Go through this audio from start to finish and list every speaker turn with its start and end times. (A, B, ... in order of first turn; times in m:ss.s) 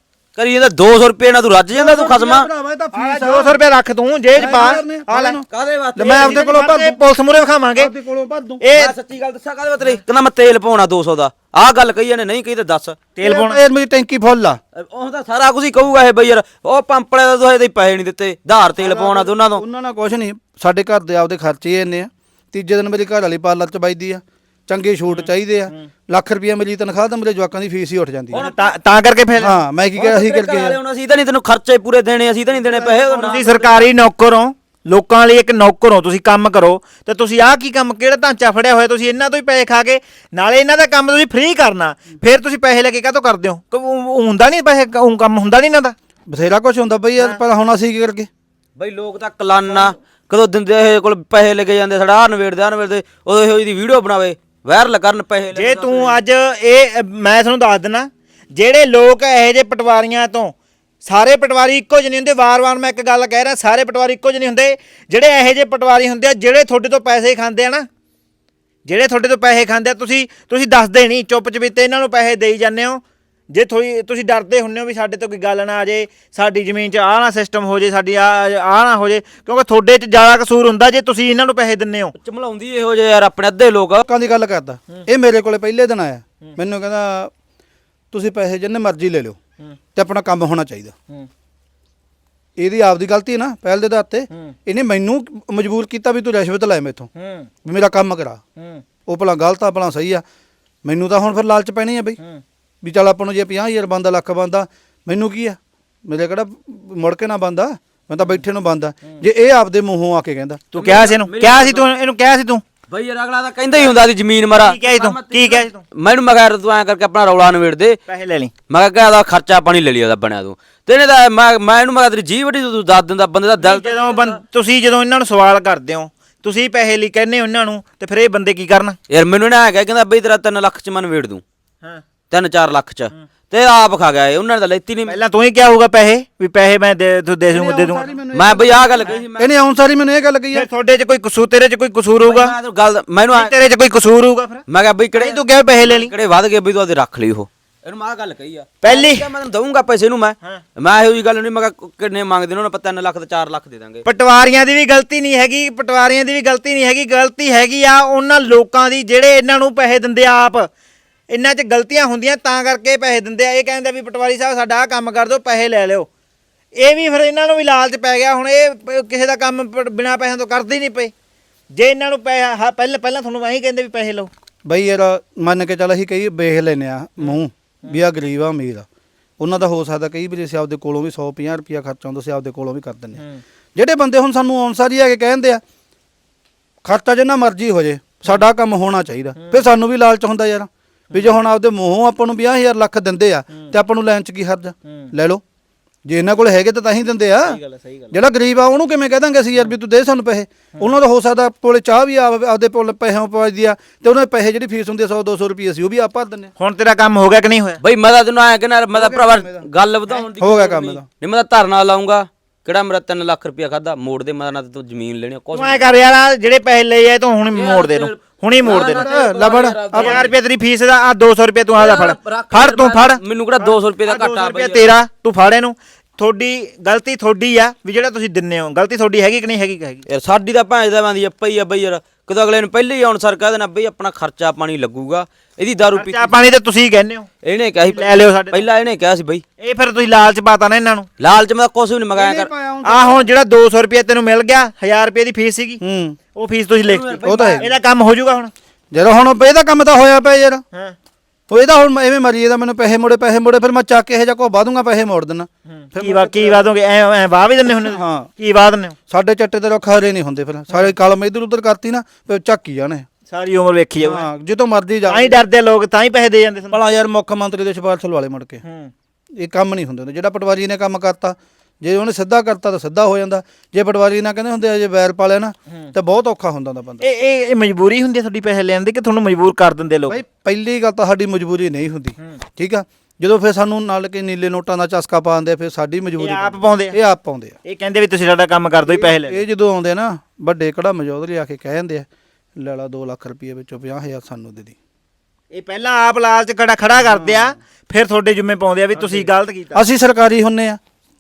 0:00.4-0:02.5 A
0:01.7-0:03.6 B
0:02.9-0:05.4 C
0:04.4-0:07.0 B
0:05.5-0:06.4 A
0:06.0-0:07.9 C
0:07.8-0:08.6 B
0:08.6-0:09.0 C
0:08.7-0:13.0 A
0:13.2-0:13.6 C
0:13.2-0:14.6 B
0:14.8-0:19.6 A
0:18.8-0:28.5 B
0:25.1-0:25.9 C
0:28.3-0:28.7 A
0:28.3-0:29.6 C
0:29.4-0:30.8 B
0:30.0-0:33.9 A
0:32.6-0:46.0 C
0:46.3-0:48.3 B
0:48.8-0:56.2 A
0:55.5-1:07.9 C
1:08.9-1:22.1 C
1:22.2-1:24.0 A
1:24.0-1:27.3 B
1:28.1-1:29.4 B
1:29.9-1:30.9 B
1:32.6-1:37.1 B
1:37.2-1:37.5 C
1:37.6-1:38.4 B
1:38.6-1:38.8 C
1:39.1-1:40.2 B
1:40.8-1:42.2 B
1:42.8-1:50.6 B
1:50.7-1:52.6 C
1:50.8-1:51.8 A
1:52.9-1:58.0 A
1:54.6-1:55.8 C
1:58.1-1:58.5 C
1:58.7-2:04.4 A
2:03.6-2:09.0 C
2:09.1-2:11.4 A
2:12.3-2:15.2 A
2:15.1-2:18.1 C
2:17.5-2:20.7 B
2:18.3-2:19.5 A
2:20.5-2:22.6 C
2:22.2-2:23.5 A
2:23.3-2:24.6 C
2:24.7-2:34.0 A
2:25.2-2:26.1 C
2:28.8-2:29.3 C
2:34.0-2:40.7 C
2:41.3-2:46.1 C
2:46.8-2:51.1 C
2:51.7-2:54.3 C
2:54.6-2:58.8 B
2:57.2-2:58.0 C
2:59.4-3:03.2 B
3:03.2-3:03.4 C
3:03.8-3:05.6 B
3:06.8-3:15.4 B
3:09.4-3:09.6 C
3:11.1-3:11.4 C
3:14.8-3:15.1 C
3:16.1-3:17.6 B
3:17.4-3:18.2 C
3:18.1-3:26.5 B
3:26.6-3:27.8 C
3:27.8-3:35.9 A
3:28.9-3:29.6 B
3:30.4-3:31.0 B
3:35.5-3:39.1 C
3:37.5-3:40.3 A
3:38.6-3:40.2 B
3:40.0-3:50.0 C
3:41.8-3:44.9 A
3:50.1-3:56.4 A
3:55.9-3:57.3 C
3:57.4-3:59.4 A
3:57.8-3:58.6 C
3:59.6-4:01.1 C
4:01.2-4:02.5 A
4:02.1-4:03.3 B
4:02.8-4:05.8 C
4:05.8-4:06.2 B
4:06.3-4:08.5 C
4:06.9-4:07.7 A
4:07.2-4:07.7 B
4:08.9-4:10.6 B
4:11.5-4:16.7 B
4:15.7-4:19.0 C
4:17.9-4:18.3 B
4:19.1-4:23.1 B
4:23.3-4:24.3 C
4:24.0-4:25.4 B
4:25.1-4:26.8 C
4:26.7-4:28.6 B
4:28.6-4:28.9 C
4:29.4-4:37.0 B
4:37.0-4:40.2 C
4:40.1-4:47.6 B
4:46.2-4:47.0 C
4:47.6-4:49.4 C
4:48.9-4:54.8 B
4:55.5-4:59.8 C
4:57.0-4:57.5 B
4:58.9-5:00.8 B